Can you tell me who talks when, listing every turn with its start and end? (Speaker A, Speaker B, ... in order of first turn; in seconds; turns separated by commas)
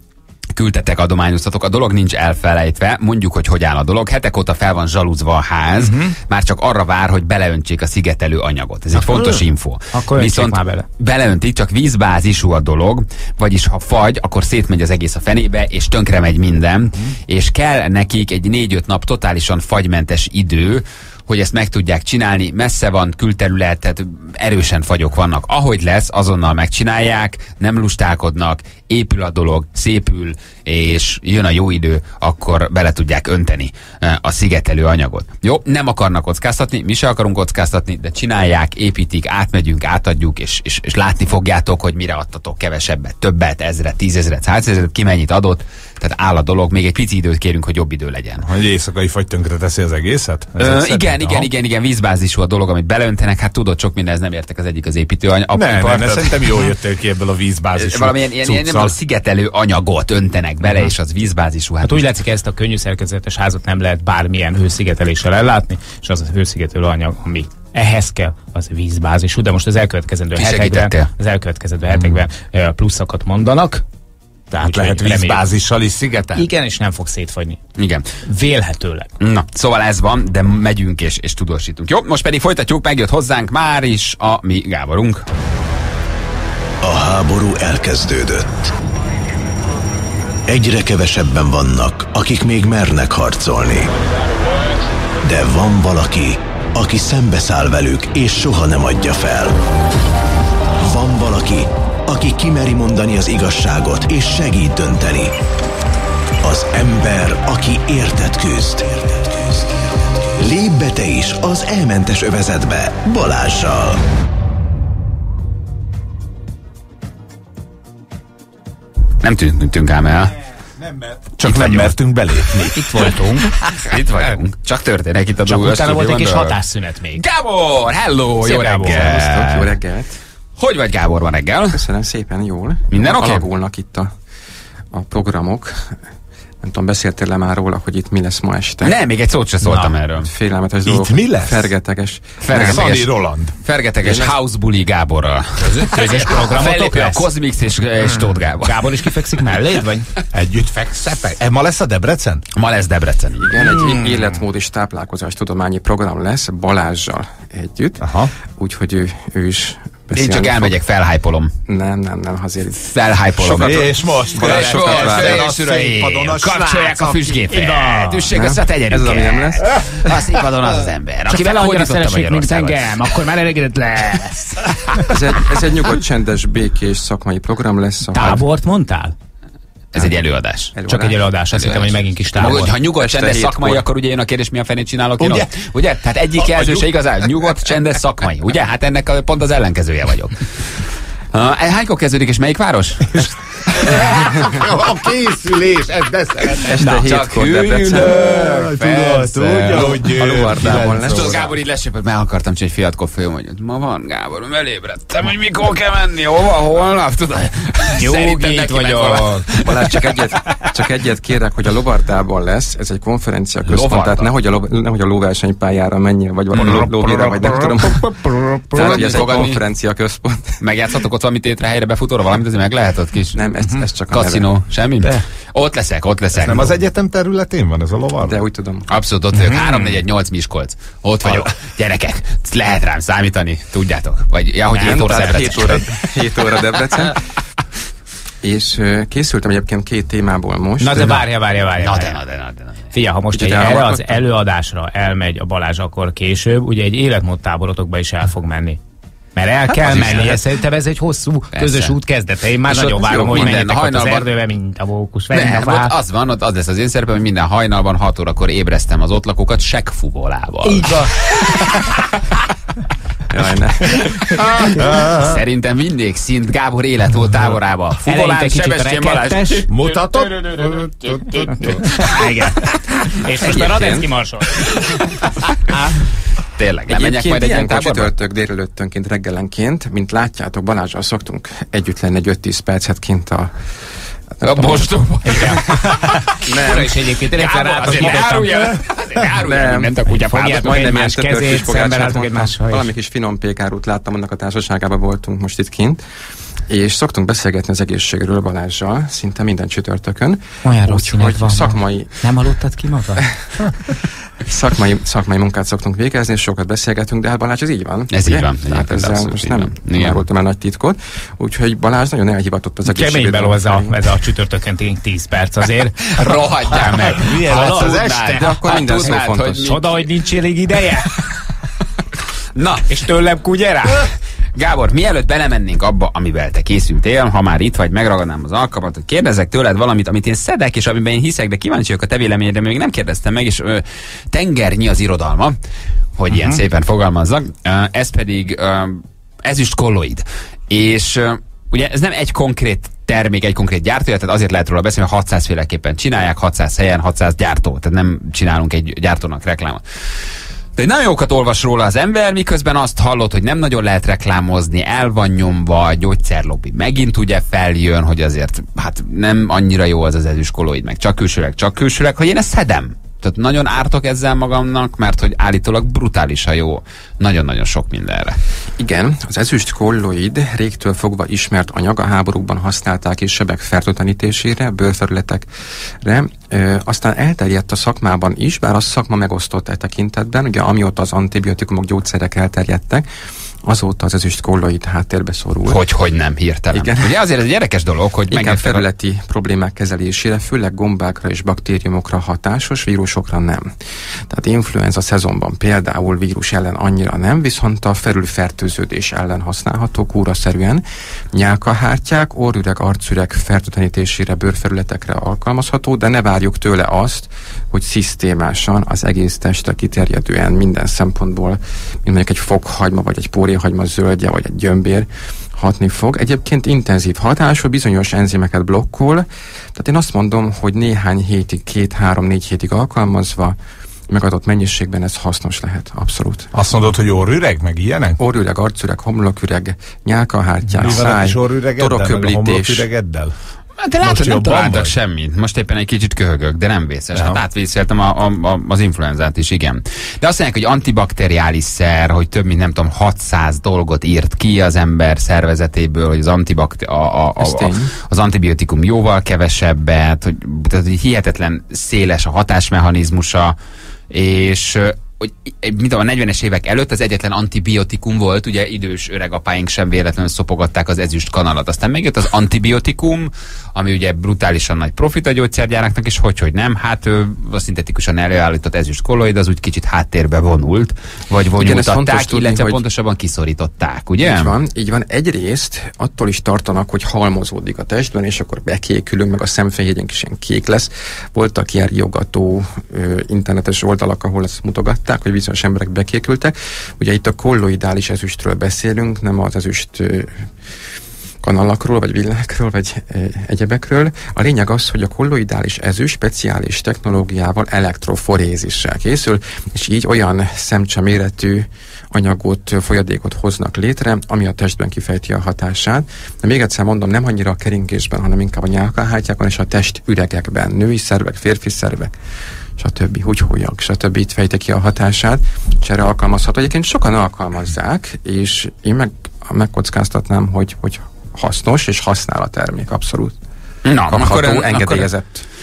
Speaker A: 0.5-48.5, Speaker B: 9.0-10.9, Speaker C: 48.4-51.5, Speaker A: 50.6-56.7, Speaker C: 55.5-59.0, Speaker A: 57.8-62.0, Speaker B: 61.8-73.8, Speaker A: 70.4-71.1, Speaker B: 74.5-75.4, Speaker C: 74.5-76.5, Speaker B: 76.4-77.6, Speaker A: 77.8-78.1, Speaker B: 78.2-79.1, Speaker A: 79.2-85.2, Speaker D: 86.8-88.5, Speaker D: 90.5-93.9, Speaker D: 95.2-99.6, Speaker D: 100.8-105.3, Speaker D: 106.4-114.0, Speaker A: 119.2-120.3, Speaker C: 120.8-123.0, Speaker A: 121.4-122.0, Speaker B: 122.7-123.5, Speaker A: 123.8-126.5, Speaker B: 125.5-127.2, Speaker A: 127.2-129.7, Speaker B: 128.4-129.0, Speaker E: 128.9-130.2, Speaker A: 130.6-131.8, Speaker E: 131.7-134.1, Speaker A: 132.9-133.5, Speaker E: 134.9-135.9, Speaker E: 136.6-139.0, Speaker A: 138.8-140.3, Speaker B: 139.6-139.9, Speaker E: 140.2-142.9, Speaker C: 140.8-141.7, Speaker A: 142.4-143.1, Speaker C: 142.5-143.6, Speaker A: 143.6-148.9, Speaker E: 144.0-144.4, Speaker B: 145.7-147.2, Speaker B: 148.6-150.1, Speaker C: 150.3-152.4, Speaker A: 152.5-153.5, Speaker E: 153.4-160.8, Speaker B: 153.6-154.3, Speaker C: 158.0-158.3, Speaker A: 160.1-161.5, Speaker E: 161.7-165.5, Speaker A: 162.8-172.9, Speaker C: 163.4-167.3, Speaker B: 167.5-168.3, Speaker E: 168.3-169.7, Speaker B: 171.3-175.1, Speaker E: 175.1-178.4, Speaker B: 178.1-179.1, Speaker A: 179.9-180.7, Speaker E: 179.9-180.2, Speaker E: 180.7-181.2, Speaker B: 180.9-182.7, Speaker A: 181.5-190.6, Speaker E: 182.4-183.8, Speaker C: 185.2-185.5, Speaker C: 186.4-186.9, Speaker A: 191.3-194.4, Speaker C: 193.1-196.8, Speaker E: 196.5-198.4, Speaker A: 196.8-209.7, Speaker C: 197.9-201.5, Speaker E: 199.7-201.5, Speaker B: 208.0-209.6, Speaker E: 209.6-218.1, Speaker A: 213.6-214.3, Speaker C: 216.5-219.5, Speaker E: 218.7-220.6, Speaker A: 218.7-219.6, Speaker A: 220.6-223.5, Speaker E: 223.3-224.5, Speaker A: 224.1-226.8, Speaker C: 226.3-228.4, Speaker E: 228.2-228.9, Speaker A: 228.9-235.9, Speaker E: 234.7-237.2, Speaker E: 238.4-241.2, Speaker B: 240.8-242.2, Speaker A: 241.8-242.9, Speaker B: 242.9-248.8, Speaker E: 243.3-244.2, Speaker B: 249.3-255.9, Speaker A: 249.7-250.5, Speaker A: 251.5-251.9, Speaker A: 252.7-254.3, Speaker E: 253.0-253.6, Speaker A: 255.3-261.9, Speaker B: 260.6-261.1, Speaker E: 263.3-264.1, Speaker C: 264.6-265.4, Speaker A: 265.1-270.0, Speaker B: 268.0-269.7, Speaker C: 269.7-272.1, Speaker A: 271.6-271.9, Speaker B: 271.9-274.6, Speaker E: 273.4-274.0, Speaker A: 273.4-274.0, Speaker A: 276.6-278.1, Speaker E: 276.9-283.5, Speaker E: 284.4-285.1, Speaker A: 284.4-291.0, Speaker B: 285.2-285.7, Speaker B: 286.4-288.5, Speaker E: 289.4-289.9, Speaker B: 290.1-292.9, Speaker E: 290.6-296.0, Speaker E: 296.7-302.1, Speaker B: 300.6-303.3, Speaker E: 303.2-303.9, Speaker E: 304.4-314.0, Speaker A: 308.1-310.2, Speaker B: 312.8-316.1, Speaker A: 316.1-320.0, Speaker C: 317.1-318.6, Speaker B: 317.5-317.9, Speaker E: 318.3-319.7, Speaker B: 319.6-321.1, Speaker A: 322.5-323.0, Speaker B: 322.9-324.1, Speaker A: 324.5-335.6, Speaker A: 336.2-349.8, Speaker A: 350.8-368.4, Speaker E: 368.8-375.5, Speaker E: 376.0-383.0, Speaker E: 383.6-385.8, Speaker A: 385.7-388.9, Speaker E: 386.7-387.1, Speaker E: 388.3-393.7, Speaker E: 394.3-423.6, Speaker E: 424.1-426.5, Speaker C: 426.5-428.2, Speaker E: 428.2-432.9, Speaker C: 430.7-433.3, Speaker A: 433.8-453.6, Speaker C: 434.0-434.9, Speaker E: 447.4-447.9, Speaker A: 454.1-474.5, Speaker E: 471.6-472.8, Speaker E: 474.2-490.3, Speaker E: 491.4-512.1, Speaker E: 512.8-523.3, Speaker A: 523.8-525.1, Speaker E: 524.0-525.5